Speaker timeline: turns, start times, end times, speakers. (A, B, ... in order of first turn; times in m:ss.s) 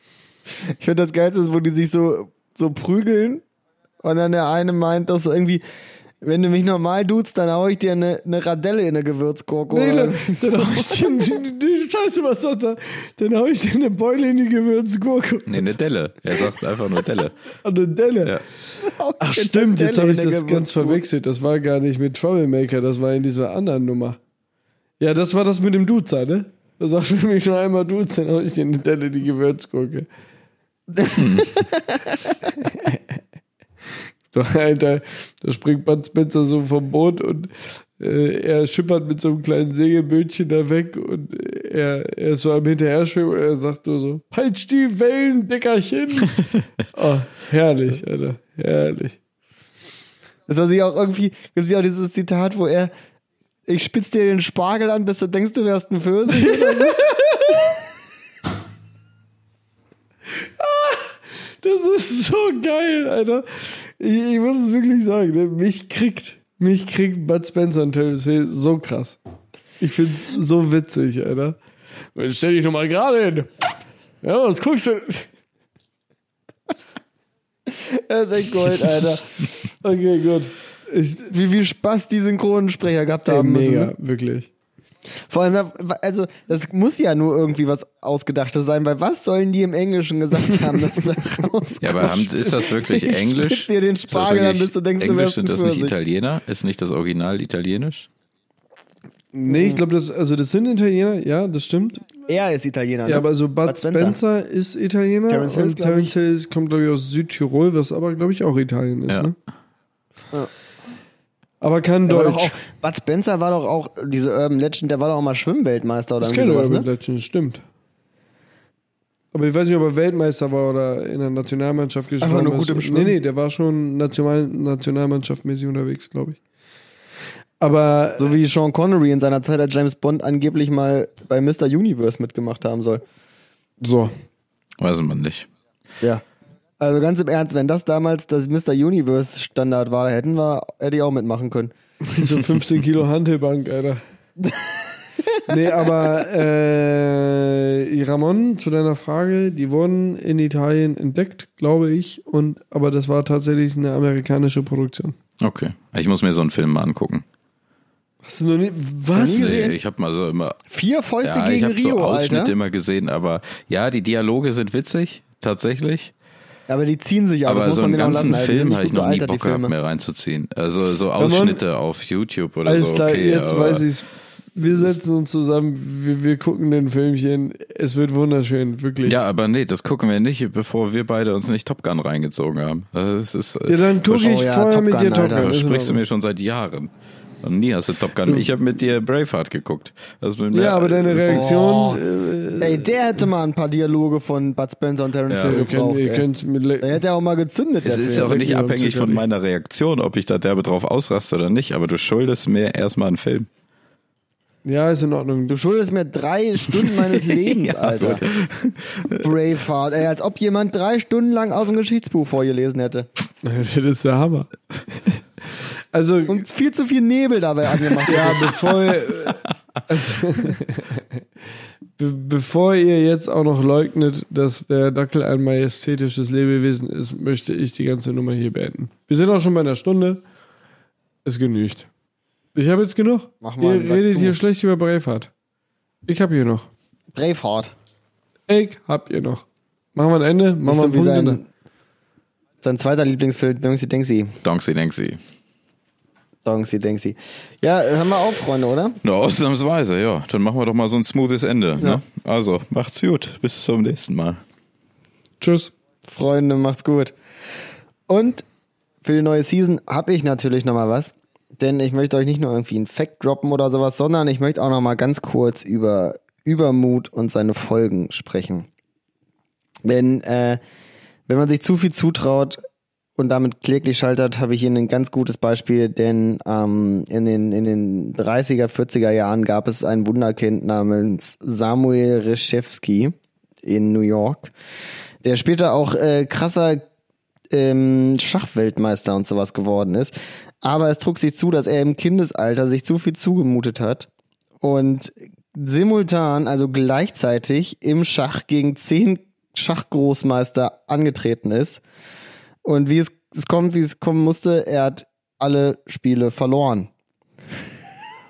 0:00.8-0:03.4 A
0:04.0-0:05.6 A
0:06.2-0:11.4 A
0:09.7-0:15.7 B
0:15.5-0:17.3 C
0:17.6-0:18.4 B
0:18.8-0:21.0 A
0:19.2-0:24.2 B
0:25.0-0:30.1 B
0:31.0-0:32.3 A
0:31.2-0:31.6 C
0:32.7-0:33.0 B
0:34.3-0:49.2 B
0:50.5-0:52.9 A
0:53.7-0:57.1 A
0:56.3-0:57.7 B
1:00.4-1:09.2 B
1:09.8-1:11.6 B
1:12.2-1:13.5 B
1:14.2-1:15.3 B
1:17.7-1:19.3 A
1:18.7-1:21.3 B
1:21.3-1:23.9 A
1:23.3-1:24.5 B
1:25.3-1:36.0 A
1:31.8-1:38.1 C
1:39.3-1:42.0 B
1:39.5-1:39.8 A
1:42.3-1:44.2 A
1:43.1-1:49.4 B
1:45.3-1:46.1 A
1:51.6-1:52.6 B
1:52.1-1:56.9 A
1:56.2-1:57.6 B
1:59.3-2:06.4 B
2:02.2-2:03.2 A
2:07.6-2:08.3 B
2:08.2-2:13.0 A
2:13.8-2:14.1 B
2:14.8-2:15.5 C
2:16.8-2:21.7 A
2:22.1-2:24.0 B
2:24.4-2:24.7 A
2:25.3-2:25.5 A
2:25.5-2:35.2 B
2:35.4-2:37.2 C
2:38.2-2:39.6 B
2:39.1-2:39.8 A
2:39.2-2:40.6 C
2:40.7-2:42.6 A
2:41.2-2:46.1 C
2:46.7-2:49.7 A
2:47.5-2:53.9 C
2:51.2-2:51.6 B
2:52.7-2:59.2 B
2:59.0-3:04.1 C
3:03.7-3:06.0 B
3:04.1-3:05.5 A
3:05.3-3:11.6 C
3:08.2-3:08.5 B
3:10.5-3:13.3 B
3:11.2-3:12.0 A
3:12.6-3:16.2 A
3:15.3-3:15.6 C
3:15.4-3:17.0 B
3:16.8-3:18.5 A
3:17.8-3:23.5 C
3:18.2-3:19.2 B
3:24.6-3:25.6 B
3:25.5-3:28.3 A
3:27.1-3:29.3 C
3:29.1-3:33.1 A
3:33.4-3:36.4 B
3:36.3-3:38.9 A
3:38.1-3:41.2 B
3:42.0-3:50.2 B
3:51.2-3:51.9 B
3:52.6-3:55.3 B
3:53.4-3:54.4 A
3:56.1-3:56.7 B
3:57.2-3:57.7 A
3:58.5-4:01.4 B
4:00.6-4:01.5 A
4:02.6-4:04.4 A
4:04.4-4:05.2 C
4:06.4-4:09.0 A
4:09.0-4:14.4 C
4:15.4-4:15.7 B
4:16.0-4:17.1 A
4:18.1-4:18.4 A
4:19.0-4:28.7 A
4:29.9-4:30.6 A
4:31.3-4:32.6 A
4:33.2-4:44.5 A
4:45.2-4:46.8 A
4:47.5-4:54.1 A
4:54.6-5:01.8 A
5:02.6-5:06.9 A